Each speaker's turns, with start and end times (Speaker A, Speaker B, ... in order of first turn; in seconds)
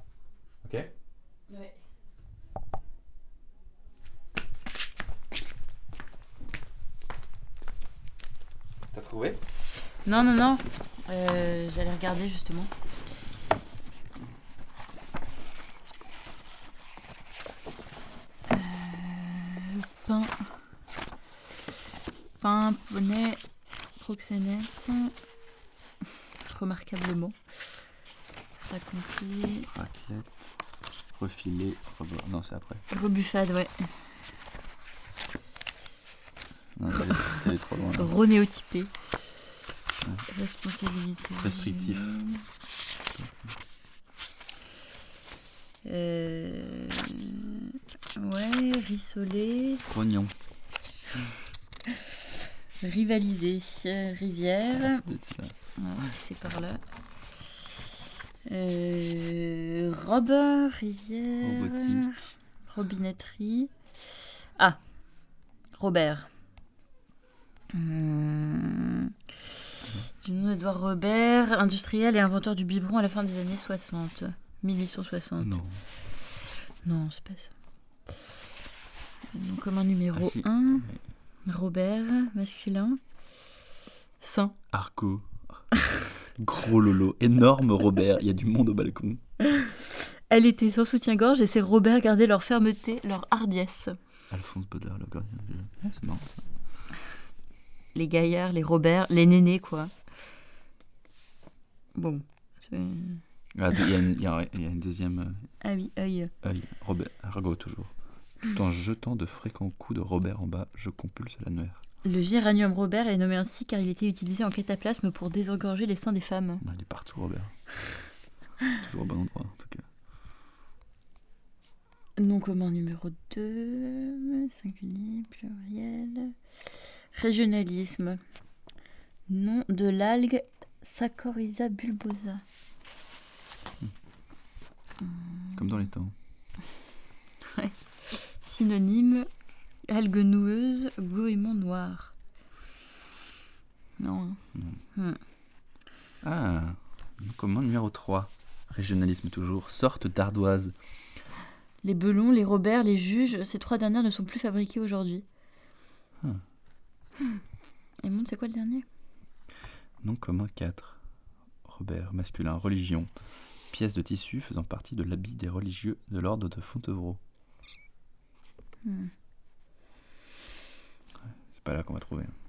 Speaker A: 0.6-0.9, 8.9-9.4, 29.7-30.5, 31.1-32.8, 36.8-38.1, 41.4-42.2, 43.1-43.5, 49.9-50.3, 54.7-55.5, 61.4-62.1, 75.4-75.8, 80.1-81.0, 84.7-85.6, 86.4-89.2, 94.3-96.4, 103.5-105.5, 106.4-111.8, 116.6-117.5, 118.7-119.9, 135.6-136.1, 144.5-144.8, 146.2-150.7, 160.0-161.0, 161.6-163.1, 163.7-167.2, 171.2-172.3
Speaker B: 1.5-1.8, 10.0-12.7, 18.5-20.5, 22.4-23.4, 24.0-25.1, 26.4-27.4, 28.7-29.7, 32.9-33.9, 37.1-37.4, 37.9-39.0, 40.3-42.4, 45.8-49.8, 52.8-55.0, 55.8-56.8, 58.5-63.7, 65.7-66.3, 67.7-69.1, 70.2-75.6, 76.8-77.5, 79.3-80.9, 81.5-83.0, 84.2-84.5, 89.4-94.0, 97.9-99.9, 101.9-103.2, 105.6-106.3, 112.0-116.6, 122.2-128.2, 129.3-132.4, 135.0-135.8, 137.5-139.3, 139.9-142.1, 144.0-144.4, 144.9-145.2, 151.8-155.2, 158.0-158.8, 168.8-169.1